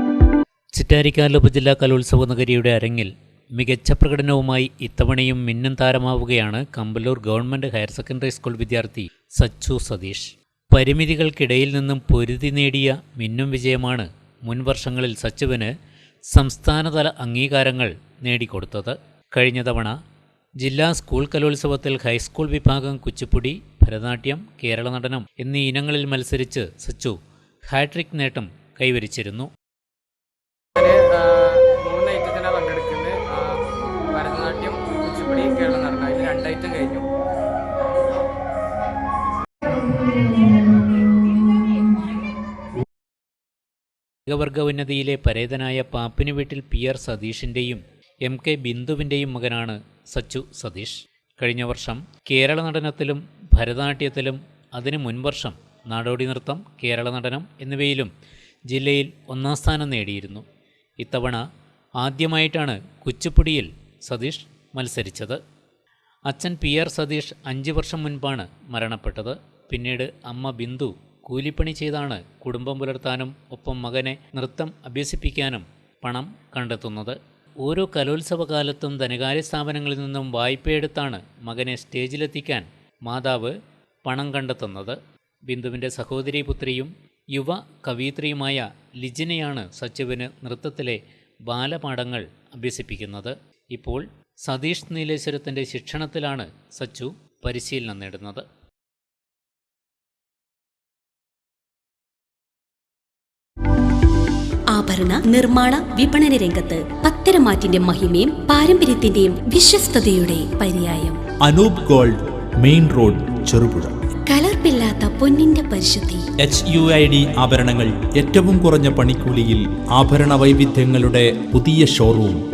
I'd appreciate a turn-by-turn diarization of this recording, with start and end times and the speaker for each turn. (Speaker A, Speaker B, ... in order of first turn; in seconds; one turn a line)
Speaker A: 0.7-15.7
Speaker A: 16.3-20.0
Speaker A: 20.6-27.2
Speaker A: 27.7-29.5
Speaker B: 30.8-33.6
Speaker B: 34.1-37.1
Speaker A: 44.3-58.1
Speaker A: 58.7-60.4
Speaker A: 61.0-61.4
Speaker A: 62.0-65.4
Speaker A: 66.3-98.4
Speaker C: 104.7-111.2
Speaker D: 111.4-114.0
Speaker C: 114.3-116.2
Speaker D: 116.4-122.4